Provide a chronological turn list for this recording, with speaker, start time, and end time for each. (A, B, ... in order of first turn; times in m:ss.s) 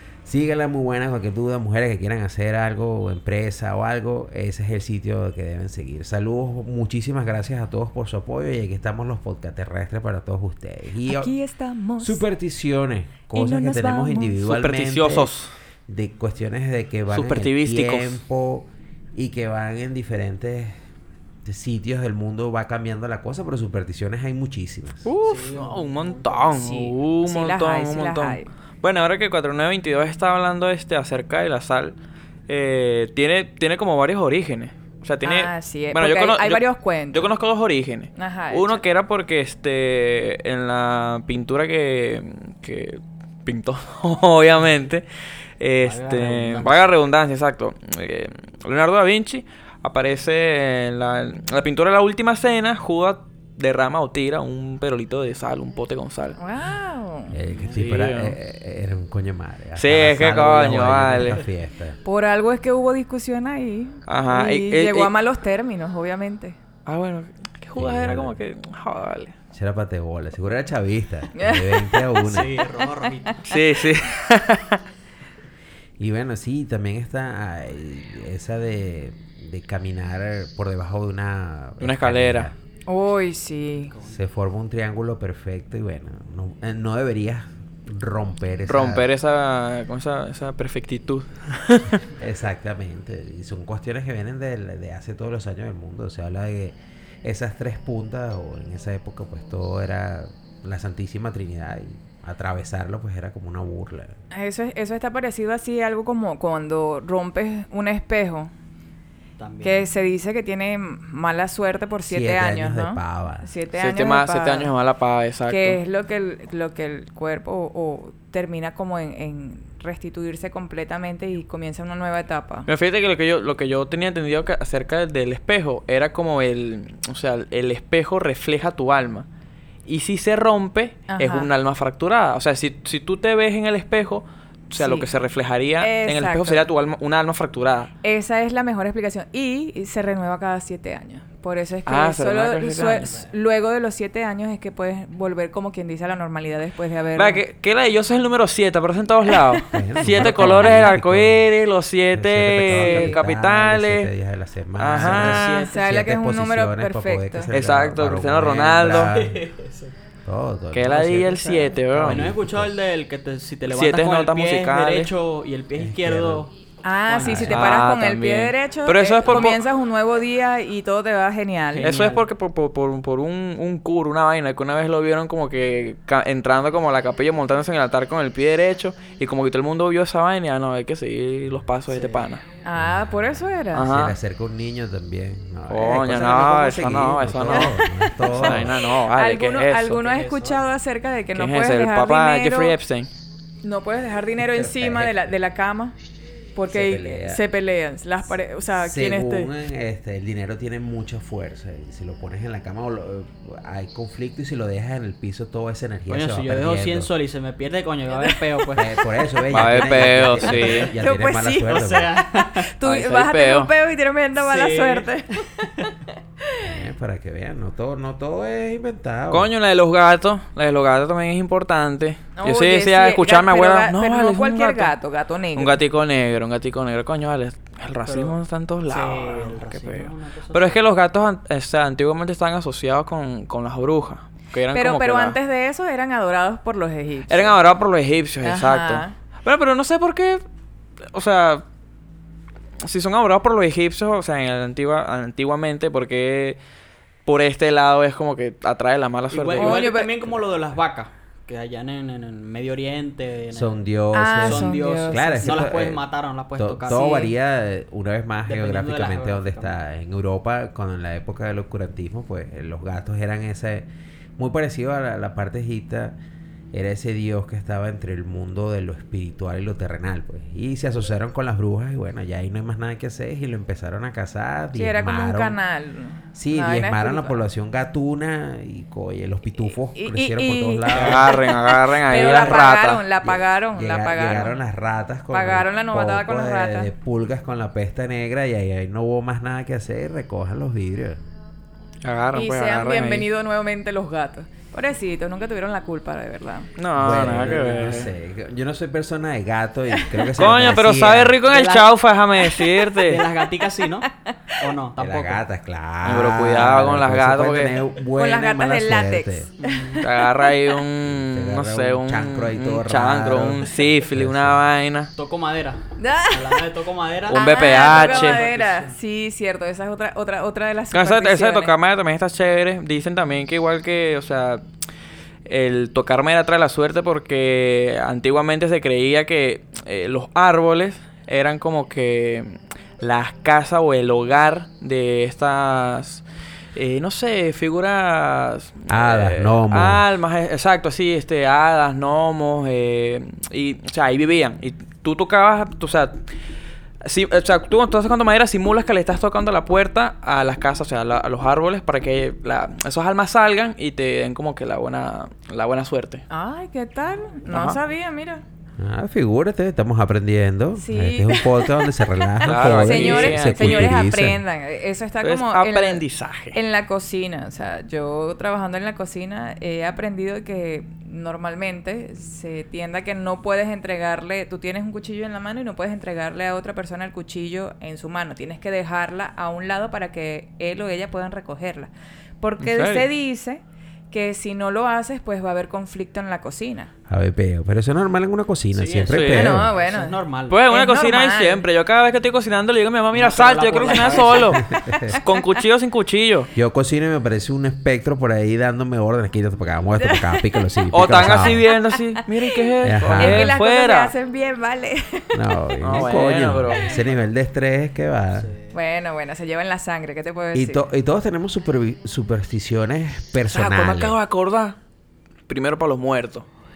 0:00.2-0:11.3 A
0:11.0-0:12.2 B
0:12.0-0:15.3 A
0:13.3-0:14.4 B
0:14.4-0:15.5 C
0:15.9-0:20.8 A
0:17.1-0:18.2 C
0:21.4-0:25.1 A
0:25.0-0:31.9 C
0:25.2-0:26.6 D
0:26.5-0:28.5 B
0:32.5-0:45.0 C
0:35.2-0:37.3 B
0:38.2-0:38.8 B
0:45.6-0:56.4 C
0:45.8-0:46.9 D
0:56.4-0:57.4 B
0:57.3-1:02.0 A
0:57.5-0:57.8 D
0:57.7-0:58.4 C
0:59.8-1:01.4 C
1:02.0-1:06.6 B
1:04.1-1:05.1 C
1:06.8-1:09.3 C
1:07.8-1:08.4 A
1:09.5-1:12.6 A
1:11.3-1:12.1 B
1:12.2-1:13.4 D
1:13.4-1:14.8 C
1:16.0-1:22.5 A
1:21.8-1:22.5 C
1:22.9-1:23.9 B
1:23.9-1:24.2 D
1:24.0-1:29.1 A
1:28.7-1:32.0 C
1:32.2-1:44.1 A
1:44.3-1:48.5 B
1:49.4-1:49.9 D
1:49.6-1:54.7 B
1:52.1-1:53.5 A
1:53.8-1:55.8 C
1:55.5-2:02.7 B
2:02.7-2:09.2 C
2:09.8-2:17.9 C
2:11.1-2:11.5 B
2:14.7-2:15.1 B
2:15.8-2:16.6 B
2:18.0-2:27.4 B
2:21.9-2:23.1 C
2:27.2-2:34.1 C
2:29.7-2:31.5 A
2:32.1-2:39.5 A
2:32.8-2:33.2 B
2:34.8-2:35.5 C
2:34.9-2:35.7 D
2:35.3-2:37.5 B
2:37.5-2:39.2 C
2:39.1-2:39.9 D
2:40.2-2:42.7 A
2:40.7-2:42.3 C
2:42.0-2:46.5 D
2:43.6-2:45.1 C
2:45.7-2:46.4 A
2:46.8-2:51.9 B
2:47.1-2:48.0 D
2:47.2-2:47.6 A
2:47.3-2:49.6 C
2:51.7-2:52.2 D
2:51.8-3:02.4 C
3:01.9-3:02.2 D
3:02.6-3:03.9 B
3:02.8-3:08.8 A
3:03.7-3:04.2 C
3:05.7-3:10.1 C
3:07.5-3:08.5 B
3:09.1-3:12.8 B
3:10.0-3:10.6 D
3:11.3-3:13.1 C
3:13.6-3:15.9 B
3:14.4-3:15.3 A
3:16.5-3:19.5 B
3:16.7-3:17.4 A
3:18.8-3:27.1 A
3:26.1-3:29.7 D
3:28.7-3:32.1 A
3:29.5-3:30.9 C
3:30.4-3:30.9 D
3:30.9-3:35.9 B
3:31.6-3:32.7 D
3:32.8-3:33.7 C
3:34.4-3:35.1 D
3:36.5-3:36.8 B
3:36.6-3:39.5 A
3:39.3-3:44.9 C
3:42.4-3:45.8 B
3:45.5-3:55.4 C
3:48.0-3:48.4 D
3:48.9-3:50.8 D
3:54.7-3:57.6 B
3:57.3-4:00.4 C
3:58.4-3:59.1 B
4:01.1-4:01.6 C
4:02.8-4:06.6 C
4:07.2-4:09.8 C
4:09.3-4:13.8 D
4:09.6-4:10.1 B
4:13.5-4:16.0 A
4:14.1-4:15.6 B
4:14.4-4:17.1 D
4:16.6-4:26.2 A
4:16.9-4:17.3 B
4:18.5-4:19.7 D
4:26.7-4:35.6 A
4:34.7-4:37.4 B
4:36.3-4:41.4 A
4:39.6-4:44.6 B
4:40.9-4:43.0 C
4:43.2-4:51.2 A
4:45.3-4:46.9 B
4:52.0-4:53.3 C
4:52.3-4:56.7 B
4:56.8-4:58.1 C
4:57.0-5:01.4 A
5:00.4-5:03.2 C
5:01.5-5:01.9 D
5:03.0-5:04.1 D
5:04.6-5:05.4 D
5:05.0-5:09.5 A
5:06.0-5:07.8 C
5:08.1-5:10.5 B
5:09.6-5:10.0 D
5:10.0-5:15.1 C
5:11.0-5:14.6 A
5:15.2-5:18.9 D
5:16.0-5:16.7 B
5:17.3-5:18.5 C
5:17.3-5:21.8 B
5:20.9-5:24.6 C
5:25.4-5:36.2 C
5:36.8-5:46.2 C
5:38.9-5:40.0 A
5:47.0-5:56.2 C
5:56.3-5:58.4 B
5:57.5-5:57.8 C
5:58.8-6:04.4 A
6:00.8-6:06.0 B
6:02.4-6:04.0 C
6:05.2-6:06.6 C
6:06.5-6:21.9 B
6:22.4-6:26.9 B
6:22.6-6:23.1 C
6:27.1-6:29.7 A
6:28.7-6:30.6 D
6:29.1-6:29.5 C
6:29.3-6:31.6 B
6:30.5-6:34.6 C
6:33.1-6:34.6 D
6:34.6-6:35.2 A
6:34.8-6:35.4 B
6:35.2-6:36.5 C
6:36.6-6:41.6 A
6:40.0-6:40.4 B
6:40.9-6:44.1 C
6:41.9-6:45.3 B
6:42.8-6:43.5 A
6:45.3-6:48.5 A
6:45.8-6:46.8 C
6:48.4-6:48.7 D
6:48.7-6:50.8 B
6:50.5-6:54.2 A
6:53.5-6:54.8 C
6:55.5-6:56.4 C